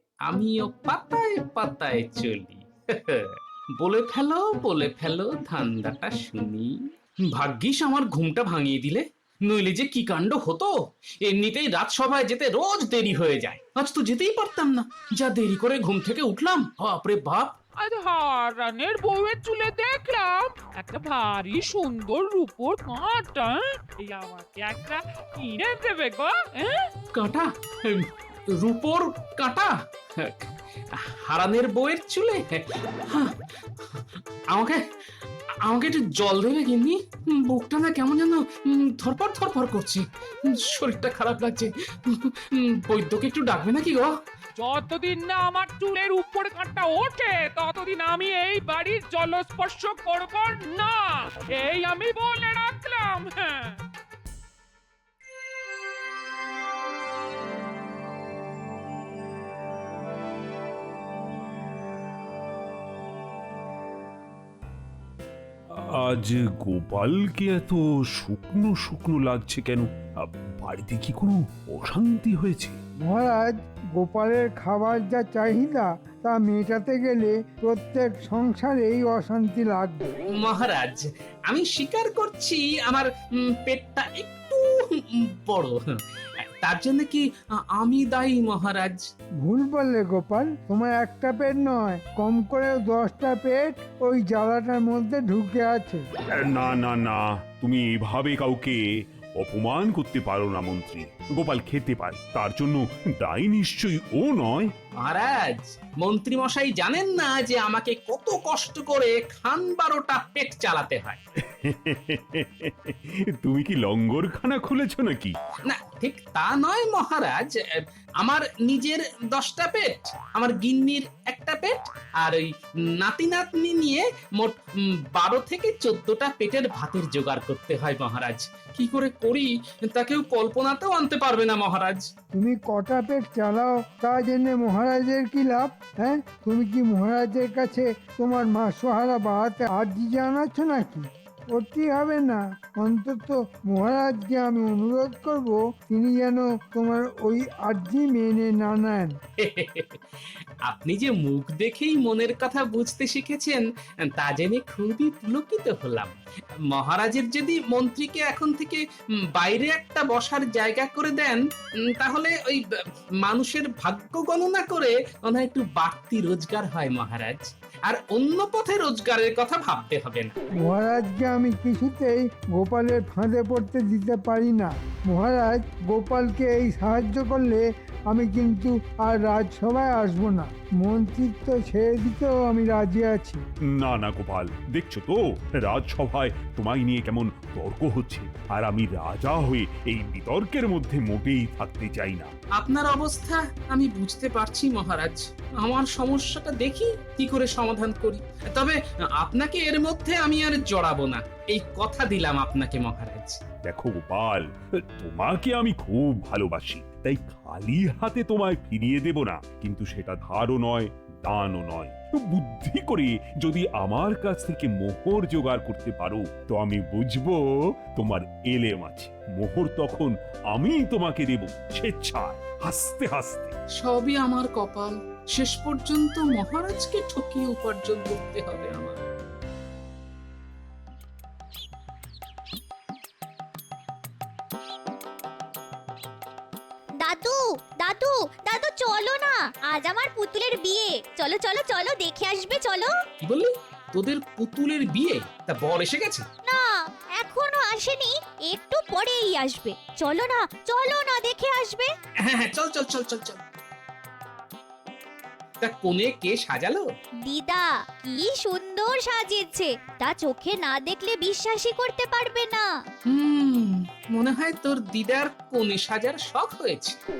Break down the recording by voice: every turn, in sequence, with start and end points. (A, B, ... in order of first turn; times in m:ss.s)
0:00.2-0:17.6 A
0:17.8-0:26.9 B
0:27.1-0:34.8 A
0:35.6-0:44.1 A
0:44.6-0:53.8 B
1:05.7-1:12.8 C
1:13.0-1:20.1 D
1:20.3-1:26.0 A
1:26.6-1:29.0 A
1:29.4-1:36.0 D
1:36.4-1:38.8 C
1:39.4-1:44.7 C
1:45.0-1:51.2 A
1:51.6-1:55.3 C
1:55.7-2:04.6 A
2:05.1-2:12.1 A
2:12.4-2:29.1 D
2:29.4-2:36.2 A
2:36.7-2:50.3 A
2:50.6-3:03.4 D
3:03.8-3:12.3 C
3:12.6-3:23.4 A
3:23.6-3:24.4 C
3:25.0-3:37.4 C
3:38.0-3:43.5 C
3:43.8-3:49.0 A
3:57.0-4:02.9 E
4:03.2-4:06.3 A
4:06.5-4:11.9 E
4:12.2-4:13.4 A
4:15.6-4:16.9 A
4:17.2-4:22.7 E
4:23.1-4:27.0 A